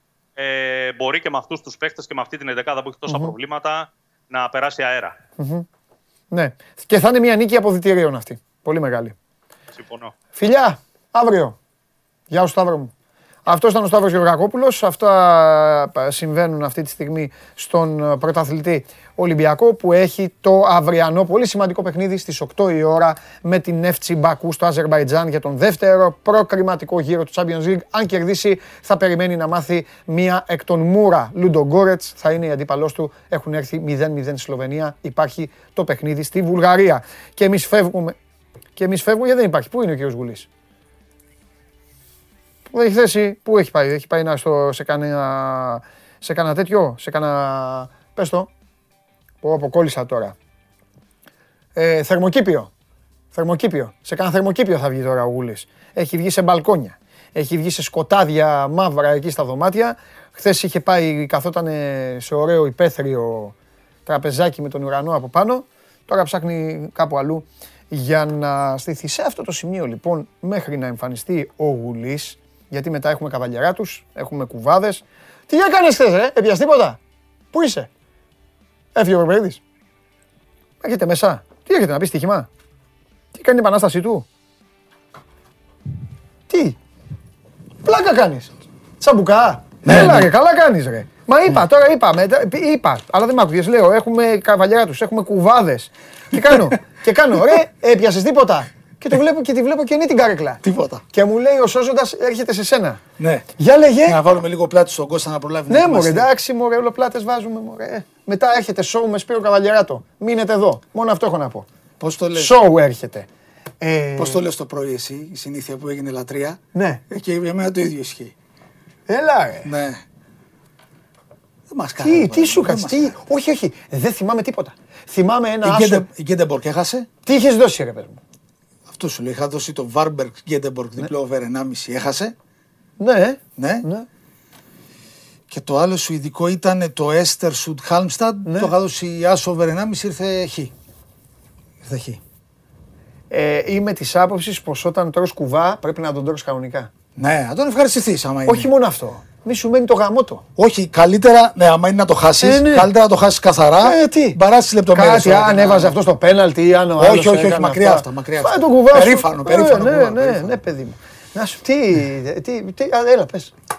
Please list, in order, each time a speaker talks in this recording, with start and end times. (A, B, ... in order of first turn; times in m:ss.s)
0:00.4-0:05.2 A
0:03.1-0:03.3 B
0:05.4-0:05.7 B
0:06.3-0:09.2 B
0:09.7-0:10.1 A
0:10.4-0:11.6 B
0:12.3-0:12.9 B
0:13.5-0:38.2 B
0:38.8-0:40.5 B
0:42.7-0:48.5 B
0:49.4-0:50.4 B
0:51.8-0:52.7 B
0:53.3-1:03.6 B
1:04.1-1:17.0 B
1:17.5-1:17.9 B
1:19.0-1:19.6 B
1:20.8-1:22.5 B
1:23.3-1:24.2 B
1:26.5-1:26.8 B
1:27.8-1:43.0 B
1:29.8-1:30.3 C
1:40.6-1:41.0 C
1:43.2-1:43.5 C
1:43.6-1:44.2 B
1:44.1-1:46.3 C
1:45.7-1:51.7 B
1:52.0-1:52.6 C
1:52.4-1:53.3 B
1:53.8-1:54.4 B
1:54.2-1:58.4 C
1:56.8-1:57.0 B
1:59.1-1:59.7 B
1:59.6-2:00.0 C
2:01.7-2:03.1 C
2:02.0-2:06.1 B
2:05.6-2:07.1 C
2:07.3-2:08.2 B
2:08.9-2:12.3 C
2:13.0-2:14.1 B
2:13.6-2:13.9 C
2:15.5-2:20.7 C
2:18.4-2:18.7 B
2:21.9-2:22.2 C
2:23.3-2:26.9 B
2:27.2-2:28.7 C
2:28.5-2:30.4 B
2:30.6-2:36.0 C
2:32.4-2:32.9 B
2:33.8-2:34.4 B
2:34.9-2:43.5 B
2:37.0-2:40.6 C